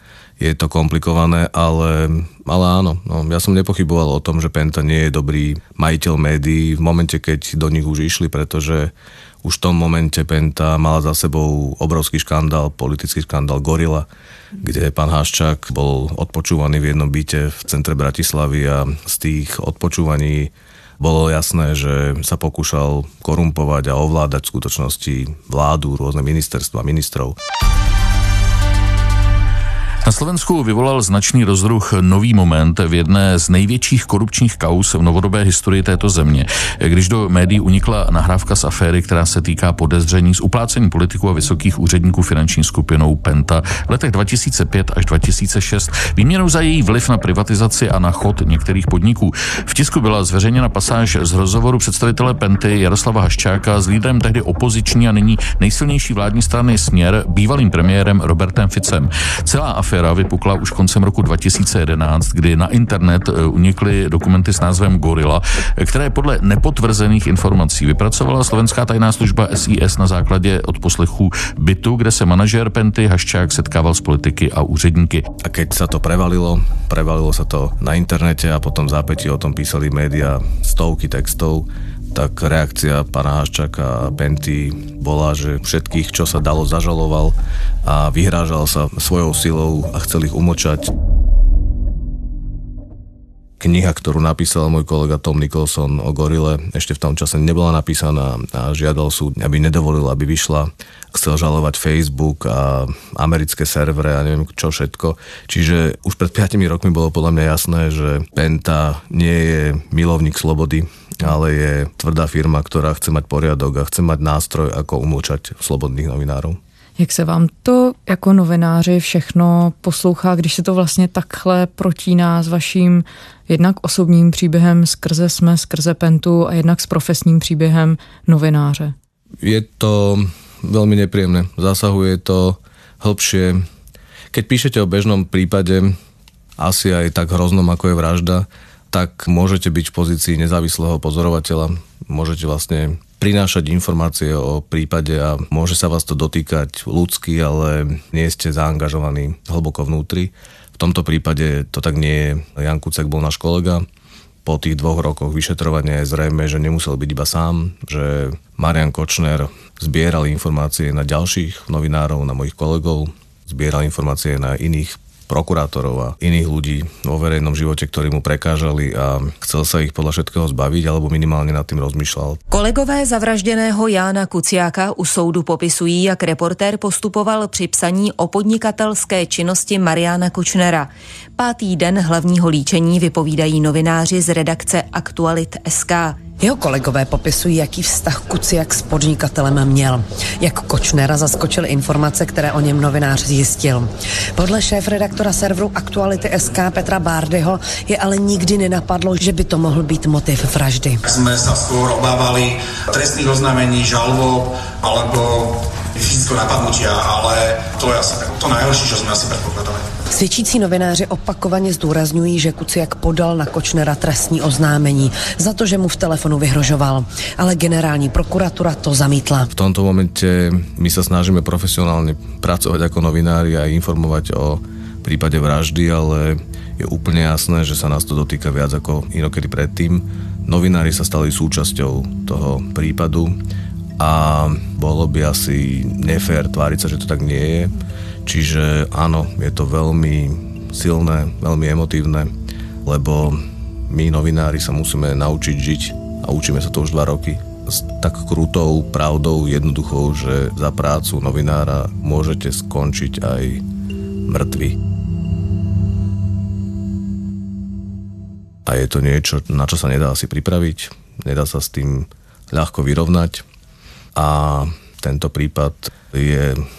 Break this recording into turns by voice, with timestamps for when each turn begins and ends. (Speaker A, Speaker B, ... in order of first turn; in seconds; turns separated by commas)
Speaker A: 0.4-8.9, Speaker A: 9.4-14.1, Speaker A: 14.6-27.4, Speaker B: 30.0-75.2, Speaker A: 75.4-90.9, Speaker A: 93.6-116.6, Speaker C: 117.0-128.9, Speaker A: 129.4-133.6, Speaker A: 134.3-135.9, Speaker A: 136.6-153.8, Speaker A: 154.4-172.4, Speaker D: 172.5-186.2, Speaker E: 186.4-201.0, Speaker F: 201.1-209.9, Speaker E: 210.1-219.5, Speaker A: 219.5-233.4, Speaker A: 234.0-242.3, Speaker A: 242.8-253.6, Speaker A: 254.2-254.8, Speaker A: 258.6-263.4, Speaker A: 264.1-266.6